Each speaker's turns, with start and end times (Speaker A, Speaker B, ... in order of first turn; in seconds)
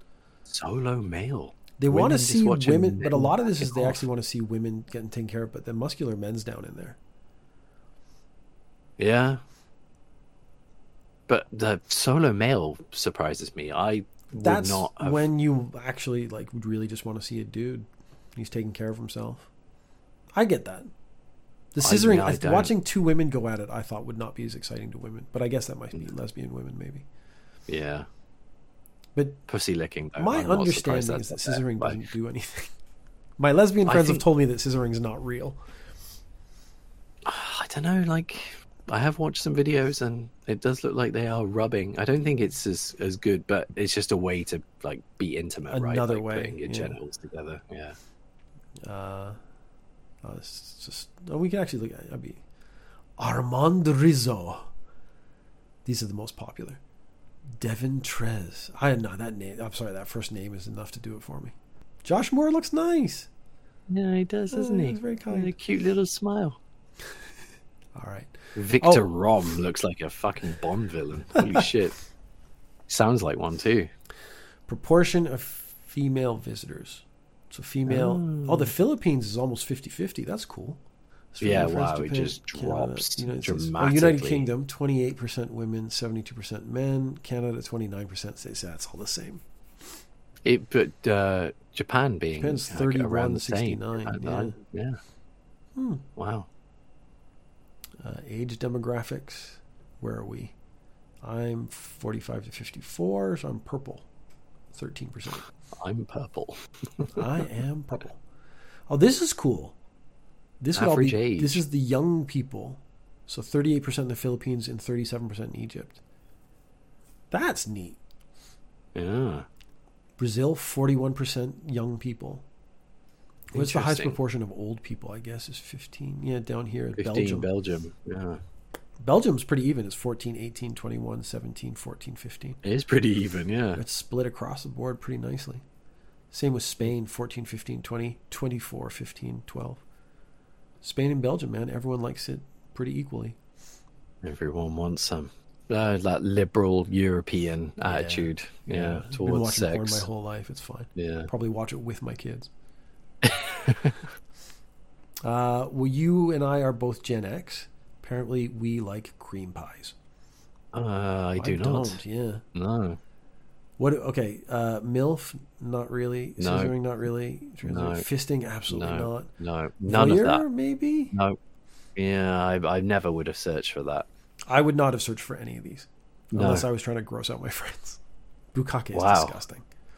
Speaker A: 0.5-4.0, 9.0-9.4, 11.3-15.2, 21.8-22.7, 27.7-28.1, 29.5-32.0, 33.9-34.2, 37.2-48.0, 63.9-66.6, 68.5-72.0, 72.9-73.9, 77.9-78.7, 81.4-84.5, 90.4-95.0, 96.2-96.5, 105.7-107.2, 110.8-111.6, 118.9-119.5, 123.5-124.2, 127.0-128.4, 132.6-133.8, 144.2-150.1, 150.9-151.3, 153.2-154.0, 160.7-162.0, 162.5-163.0, 166.4-166.7, 167.7-168.0, 168.7-170.4, 171.1-171.4, 171.9-174.1, 176.3-176.7, 178.9-179.3
Speaker B: 1.8-7.0, 14.4-19.5, 20.4-20.9, 21.7-27.0, 29.1-29.4, 30.2-32.7, 33.4-35.6, 45.7-47.0, 48.8-49.4, 50.2-52.4, 53.2-54.7, 55.9-56.8, 57.6-63.3, 64.5-65.5, 68.0-69.1, 71.4-71.7, 74.7-80.8, 81.3-89.4, 92.4-94.6, 95.8-96.0, 98.0-100.5, 101.2-104.0, 104.7-105.5, 107.1-108.2, 108.9-109.7, 110.6-116.0, 117.3-118.0, 120.2-122.4, 123.5-127.5, 129.0-132.6, 133.8-135.6, 136.3-139.8, 140.8-143.4, 147.8-152.5, 155.2-159.9, 161.4-162.4, 163.8-169.3, 169.8-171.1, 174.5-178.0, 178.5-179.6